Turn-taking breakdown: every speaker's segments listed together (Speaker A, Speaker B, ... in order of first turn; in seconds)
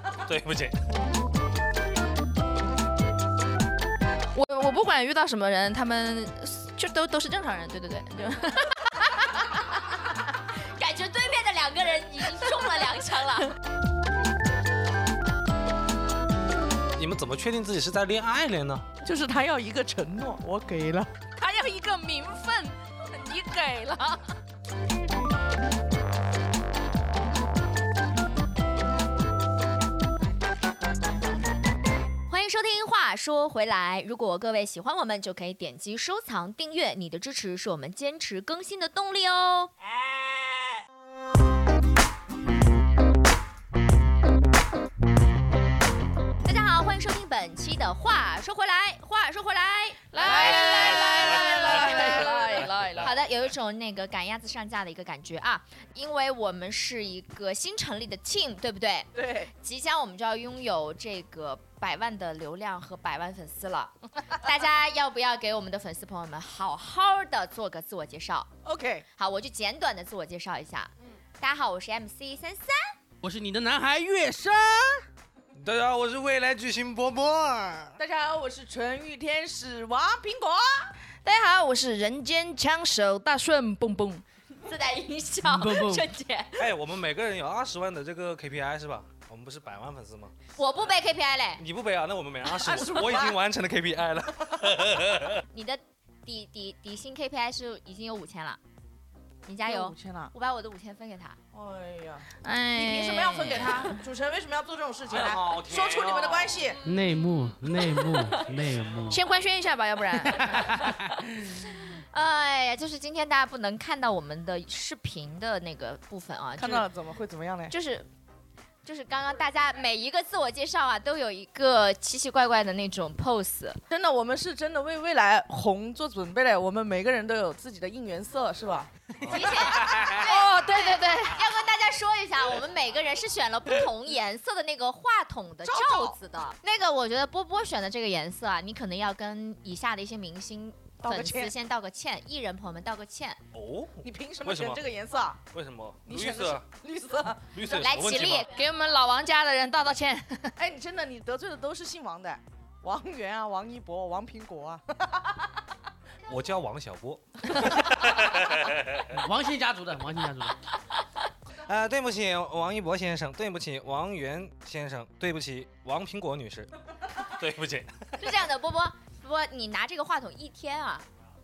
Speaker A: 0.1-0.8, 16.9-18.9, 50.7-51.6, 75.5-77.7, 86.6-90.3, 91.6-95.4, 105.1-106.7, 129.2-130.3, 143.5-144.8, 145.5-146.7, 147.5-148.5, 156.2-159.2, 161.5-168.2
Speaker B: 4.3-9.6, 21.4-24.3, 50.1-53.1, 81.2-84.2, 102.4-103.8, 109.1-110.7, 130.1-131.4, 148.5-150.6
Speaker C: 10.5-13.6, 32.3-39.7, 46.4-52.3, 53.0-68.5, 69.2-72.9, 84.6-86.7, 90.6-91.6, 95.5-98.6, 99.5-101.4, 110.8-116.9, 117.7-118.1, 118.8-123.8, 129.2-143.4, 147.6-148.5, 168.2-171.1
Speaker D: 19.0-21.1, 50.2-52.6, 59.1-59.5, 68.6-69.1, 78.0-80.9, 92.5-93.4, 99.6-100.3, 101.5-106.8, 116.6-117.8, 123.9-128.9, 135.6-136.2, 141.0-141.5, 144.0-145.4, 146.1-147.5, 150.6-155.5
Speaker E: 73.2-75.1, 77.4-77.9, 85.4-86.1, 106.8-109.2, 110.2-111.6, 159.1-160.6